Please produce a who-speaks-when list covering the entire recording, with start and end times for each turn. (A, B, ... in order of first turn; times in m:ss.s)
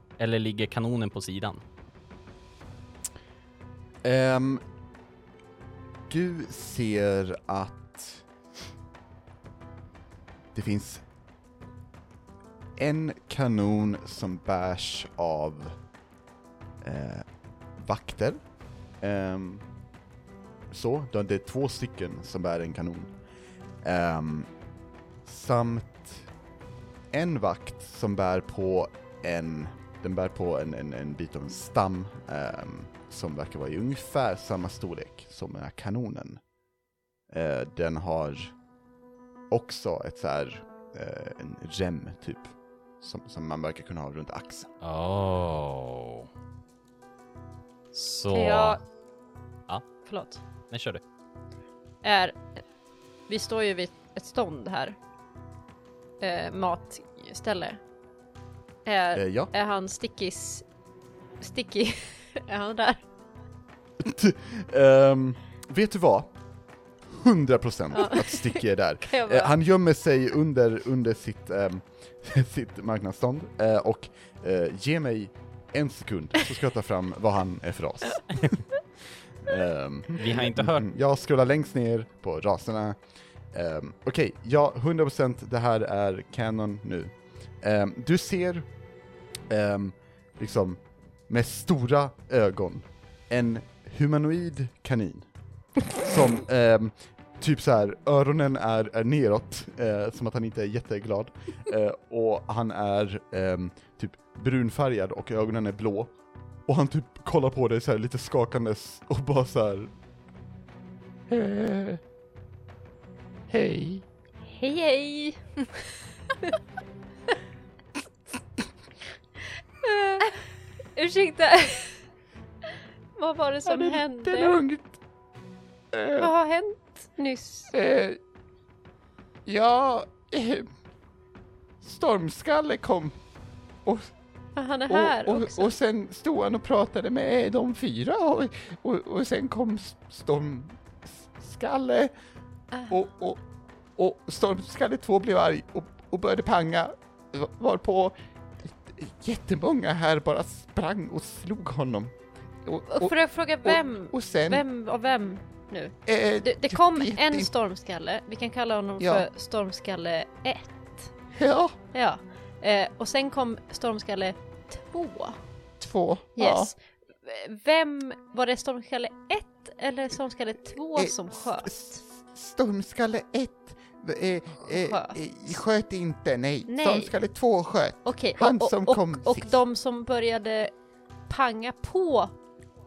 0:00.2-0:01.6 A
0:04.0-0:04.6 B
0:06.1-0:08.2 B
0:10.5-0:11.0 B
0:12.8-0:15.8 B
0:16.8-0:18.4 B
0:19.0-0:19.7 B
0:20.7-0:23.1 B
0:23.8-0:24.5 B
0:25.2-0:26.3 B
0:27.1-0:36.4 B
0:37.3-0:38.6 B
0:39.5-0:44.7 B
0:44.8-0:46.3 A
0:47.9-0:48.8 A
0:48.3-0:48.8 C
0:50.0-0:50.4 C
0:50.7-0:51.0 A
0:52.0-0:52.6 C
0:53.3-0:55.0 C
0:56.2-0:57.8 C
0:58.9-1:00.6 C
0:59.1-0:59.5 B
1:01.4-1:03.0 C
1:04.0-1:06.3 B
1:07.0-1:18.6 B
1:07.9-1:09.5 C
1:19.4-1:23.0 B
1:20.1-1:20.9 A
1:23.5-1:28.7 B
1:29.5-1:35.3 B
1:36.0-1:46.1 B
1:46.7-1:49.9 B
1:51.3-1:52.0 B
1:53.5-1:54.0 B
1:54.5-1:55.6 C
1:59.8-2:02.0 C
2:03.2-2:04.6 C
2:03.6-2:05.0 B
2:05.9-2:06.3 B
2:06.2-2:07.7 C
2:07.7-2:08.2 B
2:09.5-2:10.7 B
2:11.8-2:13.2 B
2:13.8-2:14.1 B
2:14.6-2:15.7 C
2:14.9-2:22.1 B
2:22.7-2:23.0 C
2:22.9-2:23.4 B
2:24.0-2:34.6 B
2:32.9-2:41.1 C
2:36.1-2:37.5 B
2:39.0-2:39.3 B
2:41.4-2:41.8 B
2:41.9-2:45.4 C
2:45.8-2:46.7 B
2:46.4-2:51.9 C
2:51.0-2:59.5 B
2:54.7-2:55.2 C
2:56.7-2:57.2 C
2:58.0-3:00.7 C
3:01.3-3:02.3 C